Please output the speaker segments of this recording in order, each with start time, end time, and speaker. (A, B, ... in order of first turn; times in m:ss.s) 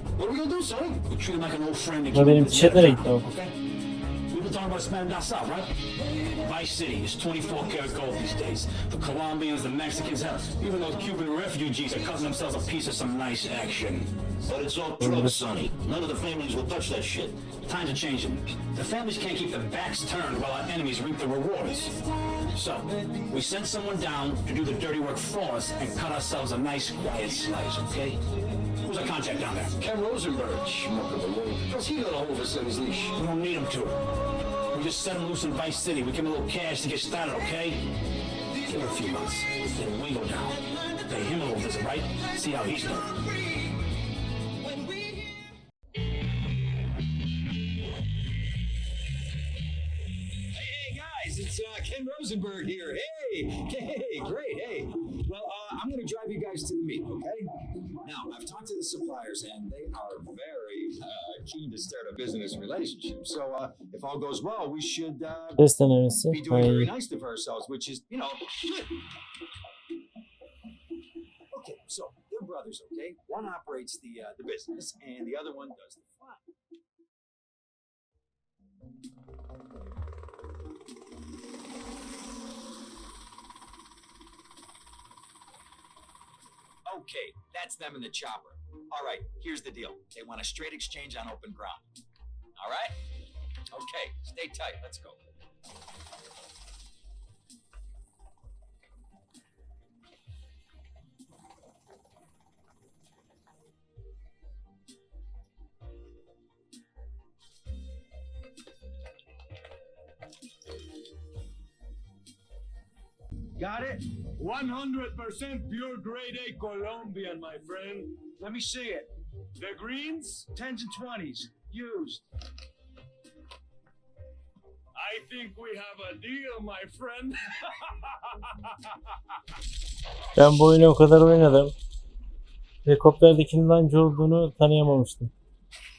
0:00.2-0:01.0 A
0:01.0-0:03.5 B
0:02.1-0:03.2 C
0:04.3-0:05.8 B
0:06.3-0:14.2 B
0:14.4-0:17.4 A
0:15.0-0:15.4 C
0:17.4-0:28.2 B
0:28.8-0:29.8 B
0:29.8-0:33.1 A
0:33.1-0:37.9 B
0:38.6-0:43.2 B
0:44.7-0:45.5 D
0:50.5-1:05.6 D
1:05.6-1:06.9 C
1:06.3-1:09.0 D
1:11.5-1:16.4 D
1:26.9-1:31.9 D
1:32.6-1:33.0 D
1:33.7-1:35.2 D
1:53.6-1:54.2 D
1:54.4-1:58.1 E
1:58.2-1:59.1 D
1:59.6-2:00.4 E
2:00.4-2:02.3 D
2:05.0-2:07.3 E
2:10.4-2:11.7 C
2:12.9-2:15.3 C